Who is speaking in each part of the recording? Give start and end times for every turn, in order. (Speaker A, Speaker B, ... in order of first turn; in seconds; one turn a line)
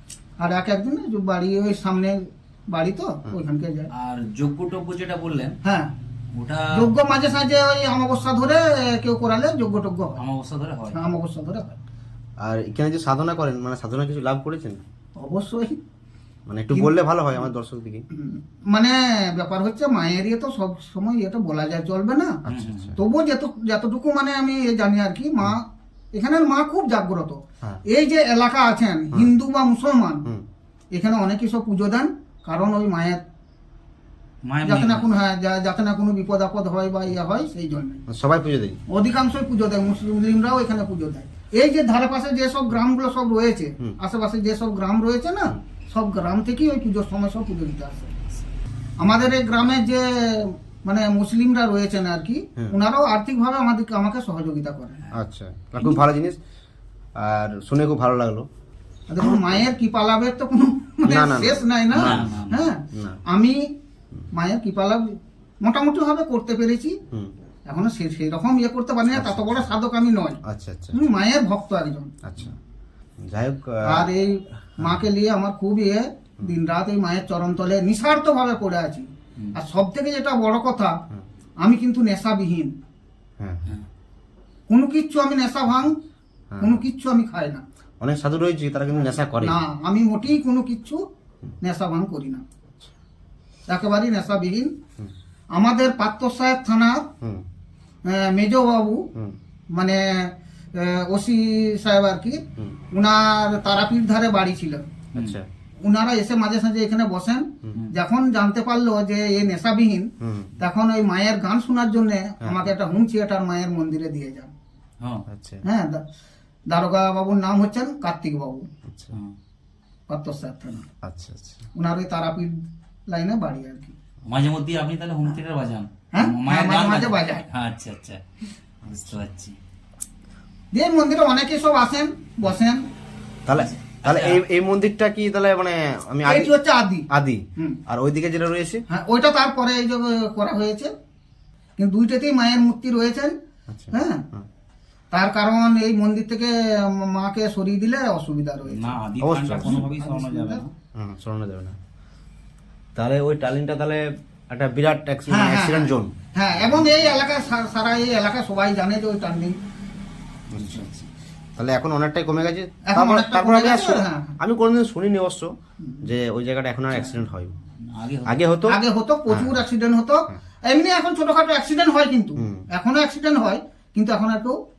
Speaker A: 0.4-3.9
Speaker B: 3.9-5.5
Speaker A: 5.6-5.9
Speaker B: 6.3-6.8
Speaker A: 6.7-10.2
Speaker B: 10.2-11.1
Speaker A: 10.9-11.8
Speaker C: 12.4-14.8
Speaker A: 15.2-15.8
Speaker C: 16.5-18.1
Speaker A: 16.7-17.5
Speaker A: 18.1-22.4
Speaker C: 22.4-23.0
Speaker B: 22.5-22.9
Speaker A: 22.9-30.2
Speaker A: 30.9-33.2
Speaker B: 34.5-35.1
Speaker A: 34.6-38.0
Speaker C: 38.1-38.8
Speaker A: 38.9-48.1
Speaker A: 49.0-55.0
Speaker C: 55.1-56.4
Speaker C: 57.2-58.5
Speaker A: 59.1-63.6
Speaker C: 59.2-59.6
Speaker C: 61.0-62.3
Speaker B: 61.9-62.7
Speaker C: 62.9-63.2
Speaker A: 64.3-67.0
Speaker A: 67.7-70.4
Speaker C: 69.1-69.7
Speaker C: 70.4-71.0
Speaker A: 70.9-72.1
Speaker C: 72.2-72.6
Speaker C: 73.2-74.1
Speaker A: 73.8-81.0
Speaker C: 74.8-75.0
Speaker A: 81.6-82.7
Speaker A: 84.7-85.9
Speaker C: 86.5-86.8
Speaker A: 86.6-87.6
Speaker C: 88.0-89.6
Speaker A: 89.4-91.0
Speaker A: 91.6-92.4
Speaker A: 93.7-94.7
Speaker A: 95.5-97.0
Speaker A: 98.1-99.0
Speaker A: 99.7-102.4
Speaker A: 102.9-104.8
Speaker C: 105.1-105.5
Speaker B: 105.1-105.4
Speaker A: 105.8-114.5
Speaker C: 110.2-110.5
Speaker C: 112.4-112.7
Speaker C: 115.3-115.6
Speaker A: 115.6-116.0
Speaker A: 116.7-118.7
Speaker C: 118.8-119.1
Speaker A: 120.1-120.8
Speaker C: 121.0-121.7
Speaker A: 121.8-122.5
Speaker A: 123.1-123.9
Speaker B: 124.2-128.2
Speaker A: 126.1-127.4
Speaker B: 128.8-129.6
Speaker A: 130.7-132.8
Speaker C: 133.4-136.5
Speaker B: 133.5-134.4
Speaker A: 136.2-137.1
Speaker C: 137.1-138.8
Speaker A: 138.9-140.9
Speaker A: 141.8-143.3
Speaker C: 143.7-144.5
Speaker A: 143.9-144.2
Speaker A: 145.1-149.0
Speaker B: 148.7-150.7
Speaker C: 149.2-149.8
Speaker A: 149.6-150.6
Speaker C: 150.9-151.8
Speaker C: 152.9-156.1
Speaker A: 155.3-159.6
Speaker B: 160.5-161.1
Speaker C: 160.5-160.8
Speaker C: 161.6-165.5
Speaker A: 162.8-164.4
Speaker C: 166.0-167.5
Speaker B: 166.9-167.2
Speaker B: 167.8-168.4
Speaker C: 168.2-168.8
Speaker A: 168.7-174.5
Speaker C: 169.3-169.6
Speaker C: 172.4-172.7